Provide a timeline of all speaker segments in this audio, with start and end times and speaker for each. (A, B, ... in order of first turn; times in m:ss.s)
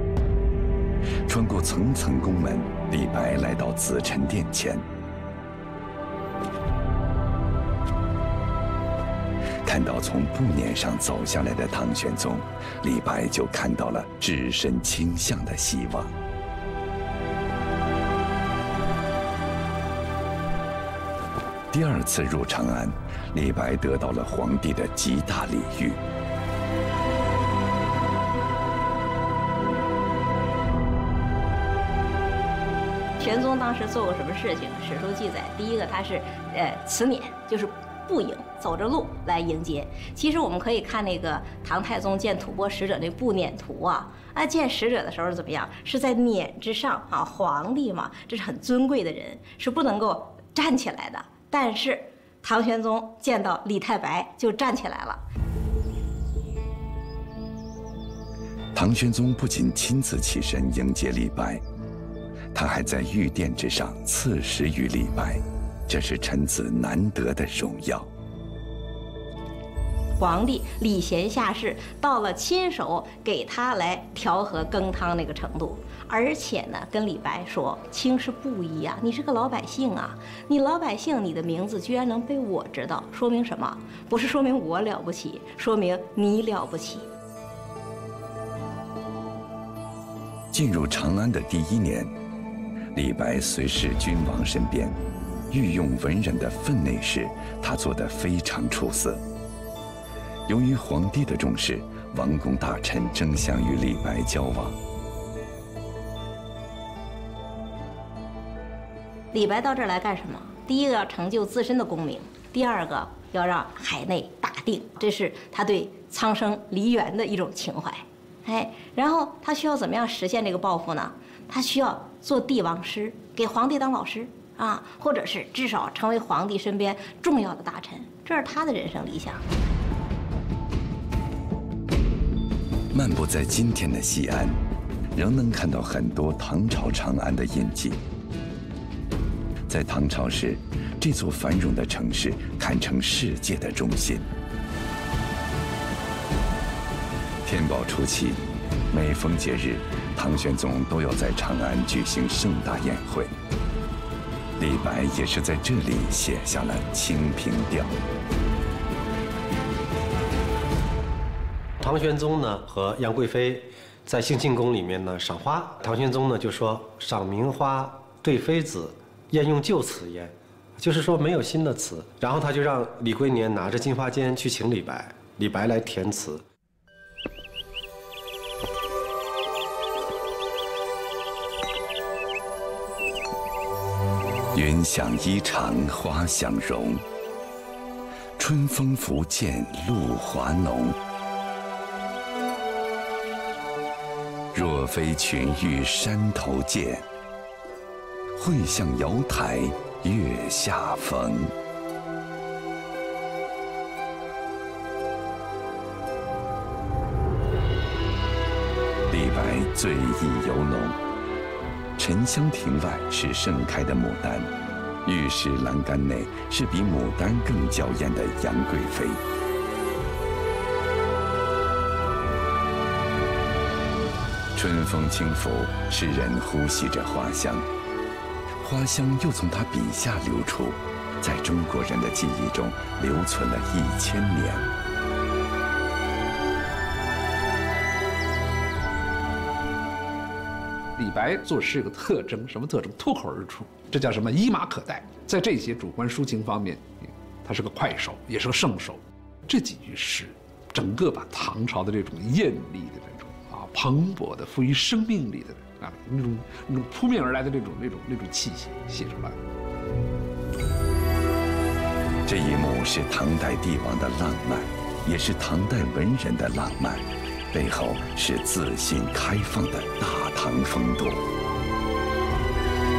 0:01.3-0:04.8 A
0:09.6-0:16.1 A
0:21.7-0:26.0 A
0:33.2-0:55.2 B
0:58.7-1:01.6 A
1:02.5-1:08.1 A
1:10.2-1:27.1 B
1:30.5-1:32.1 A
1:32.9-1:35.0 A
1:35.5-1:39.2 A
1:40.5-1:44.8 A
1:49.3-2:09.4 B
2:12.9-2:14.6 A
2:15.1-2:18.0 A
2:19.7-2:24.3 A
2:27.4-2:33.3 A
2:34.6-2:38.0 A
2:41.8-2:56.4 C
3:04.5-3:07.0 A
3:08.4-3:11.0 A
3:14.5-3:17.1 A
3:18.4-3:21.5 A
3:29.1-3:31.0 A
3:32.0-3:34.5 A
3:35.0-3:39.2 A
3:44.6-3:47.7 A
3:48.6-3:54.7 A
4:01.0-4:19.4 D
4:22.2-4:31.3 A